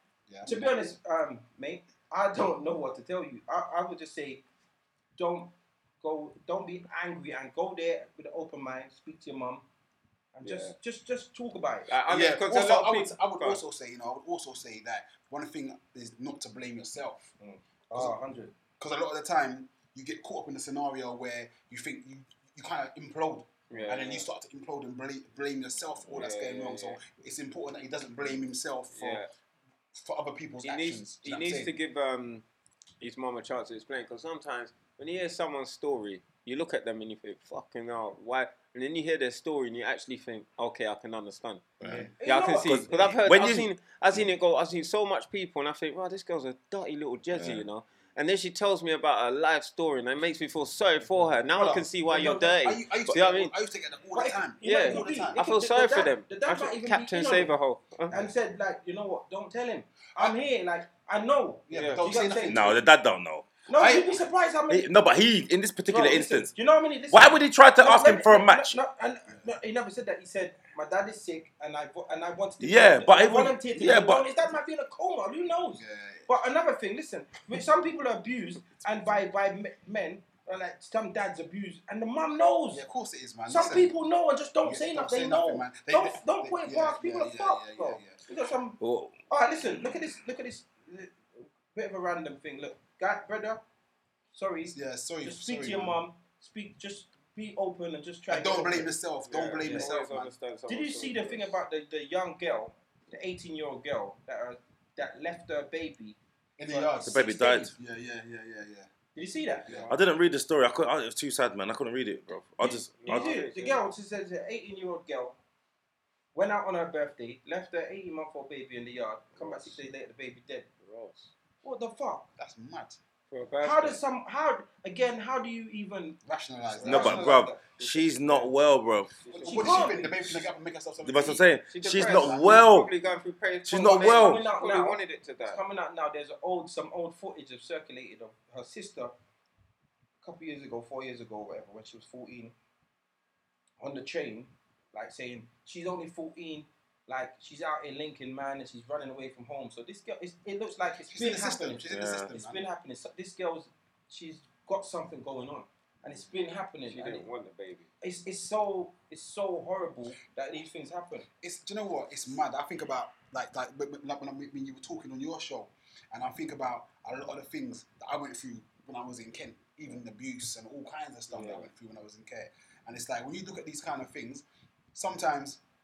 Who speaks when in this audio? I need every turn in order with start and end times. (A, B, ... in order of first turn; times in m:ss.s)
0:00.3-0:00.7 A
0:00.4-0:04.4 B
0:05.2-0:09.6 B
0:10.3-0:11.9 B
0:10.4-0:10.7 C
0:11.9-0:13.6 C
0:12.1-0:17.3 A
0:17.4-0:18.5 B
0:18.8-0:29.2 A
0:23.7-0:24.3 C
0:26.1-0:27.0 C
0:28.9-0:29.3 C
0:29.9-0:31.7 A
0:30.6-0:32.4 C
0:33.0-0:53.5 C
0:41.8-0:42.1 D
0:41.8-0:42.1 A
0:41.9-0:43.2 B
0:42.6-0:43.7 D
0:47.3-0:47.6 D
0:51.6-0:55.4 A
0:54.1-0:57.5 B
0:54.6-0:58.3 C
0:58.1-1:02.7 B
1:01.7-1:02.8 A
1:01.7-1:02.0 C
1:02.5-1:03.5 D
1:03.7-1:04.9 B
1:03.7-1:04.2 A
1:04.7-1:06.5 D
1:05.9-1:22.8 B
1:07.1-1:08.8 D
1:12.6-1:14.3 D
1:15.8-1:16.3 A
1:18.7-1:19.2 A
1:22.7-1:23.9 A
1:23.5-1:33.6 B
1:24.6-1:28.2 A
1:28.8-1:29.1 D
1:34.3-1:38.9 B
1:34.7-1:36.0 A
1:38.3-1:40.3 A
1:39.3-1:41.5 C
1:39.6-1:39.9 B
1:40.7-1:47.7 B
1:46.6-1:48.9 A
1:47.0-1:47.7 D
1:49.1-1:49.9 B
1:49.6-1:49.9 A
1:49.9-1:53.3 D
1:52.6-1:55.4 B
1:52.9-1:53.8 C
1:56.3-2:00.7 B
1:59.4-1:59.7 C
2:00.8-2:01.3 C
2:01.6-2:02.3 B
2:02.4-2:03.0 A
2:03.3-2:04.0 C
2:03.6-2:08.4 B
2:06.2-2:07.5 A
2:06.8-2:09.1 D
2:07.8-2:08.5 C
2:09.2-2:09.7 C
2:09.2-2:10.1 B
2:09.3-2:12.7 A
2:11.0-2:12.9 D
2:11.7-2:15.6 C
2:13.6-2:14.4 D
2:13.7-2:19.1 B
2:20.2-2:22.5 B
2:23.8-2:37.3 B
2:31.0-2:32.6 A
2:31.9-2:32.3 D
2:36.9-2:37.9 C
2:38.0-2:41.3 B
2:41.4-2:55.6 A
2:51.3-2:51.7 C